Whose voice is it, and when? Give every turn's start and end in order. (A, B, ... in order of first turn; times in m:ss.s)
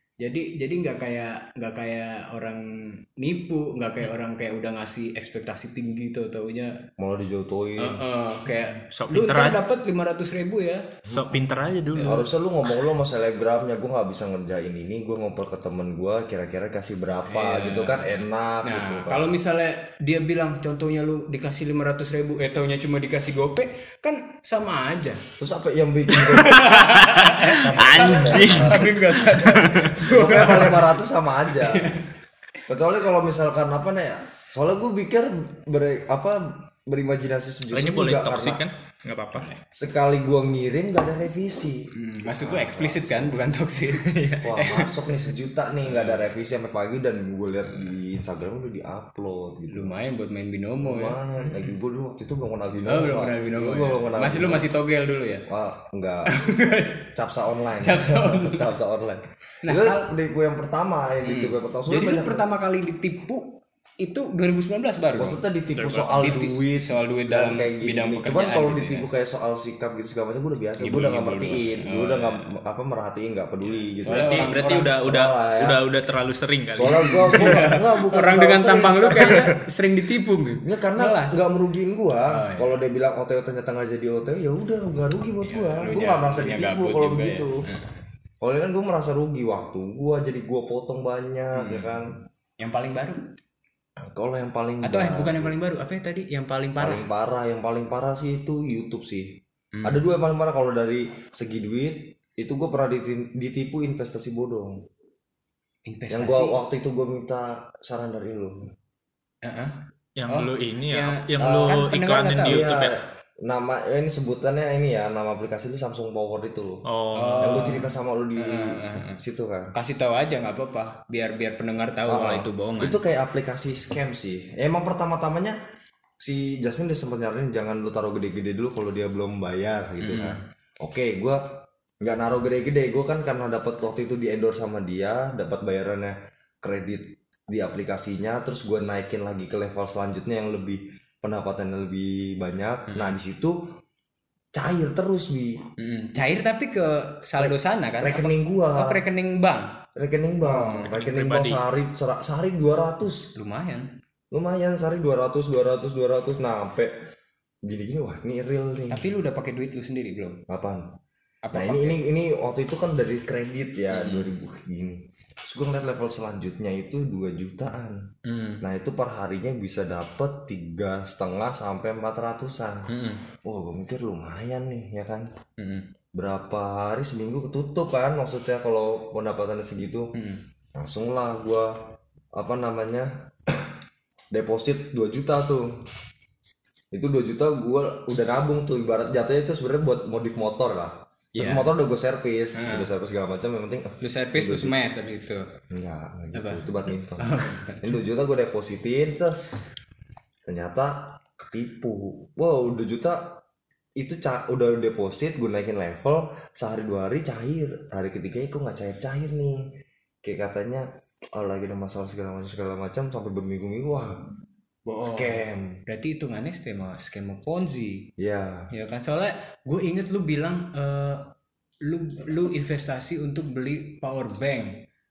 0:00.2-0:06.8 A
0:07.0-0:08.0 B
0:07.8-0:11.0 A
0:08.5-0:09.6 C
0:11.0-0:12.3 C
0:11.9-0:12.2 A
0:12.0-0:19.4 B
0:17.3-0:25.2 A
0:25.4-0:26.8 B
0:26.1-0:32.1 A
0:26.5-0:30.1 C
0:27.4-0:29.0 B
0:30.0-0:32.0 B
0:32.7-0:38.6 B
0:37.7-0:39.5 C
0:39.7-0:43.4 B
0:41.9-0:45.1 A
0:44.4-0:50.0 B
0:45.9-0:46.2 A
0:49.7-0:51.7 A
0:50.8-0:54.7 B
0:52.8-0:55.5 A
0:55.5-0:56.3 B
0:56.3-0:57.1 A
0:57.1-1:02.4 B
0:57.8-0:58.7 A
0:59.6-1:00.1 A
1:01.2-1:05.4 A
1:05.2-1:15.8 B
1:05.7-1:06.5 C
1:06.2-1:09.1 A
1:10.8-1:12.4 A
1:14.0-1:14.9 A
1:14.1-1:17.6 C
1:16.8-1:19.6 B
1:16.9-1:21.5 A
1:20.6-1:27.6 B
1:22.3-1:22.7 A
1:25.4-1:27.9 A
1:28.4-1:32.2 B
1:31.5-1:31.9 A
1:32.6-1:33.2 A
1:34.0-1:35.5 B
1:34.8-1:37.0 A
1:36.8-1:44.8 B
1:39.7-1:40.0 A
1:45.9-1:46.6 A
1:46.1-1:48.7 B
1:49.4-1:49.8 A
1:50.2-1:53.0 C
1:50.3-1:52.7 A
1:51.4-1:51.9 B
1:52.4-1:56.8 B
1:56.8-1:57.6 C
1:57.1-1:59.2 A
1:57.4-1:59.7 B
1:59.7-2:03.0 A
2:02.1-2:05.6 B
2:06.2-2:23.6 B
2:10.0-2:10.4 A
2:22.9-2:23.2 A
2:24.5-2:25.6 B
2:25.8-2:29.8 A
2:27.4-2:29.0 B
2:30.0-2:33.3 B
2:30.4-2:30.9 A
2:30.7-2:31.6 C
2:33.3-2:33.9 A
2:34.3-2:36.9 B
2:37.6-2:39.1 B
2:38.9-2:40.4 A
2:40.5-2:40.9 B
2:41.4-2:42.0 A
2:41.5-2:48.0 B
2:43.9-2:44.3 A
2:48.2-2:48.6 A
2:48.6-2:52.9 B
2:52.9-2:53.2 A
2:53.4-2:55.3 B
2:55.6-2:55.9 A
2:56.1-3:00.1 B
3:00.1-3:00.4 A
3:00.7-3:01.8 B
3:02.3-3:03.7 B
3:04.3-3:05.8 B
3:06.9-3:14.8 B
3:11.3-3:11.7 A
3:12.5-3:12.9 A
3:14.0-3:15.5 A
3:15.7-3:19.6 B
3:16.3-3:16.7 A
3:17.2-3:17.9 A
3:20.4-3:23.4 B
3:24.0-3:29.7 B
3:30.2-3:34.2 B
3:34.8-3:38.1 A
3:35.0-3:35.8 B
3:38.2-3:38.7 B
3:38.7-3:41.3 A
3:41.8-3:44.8 A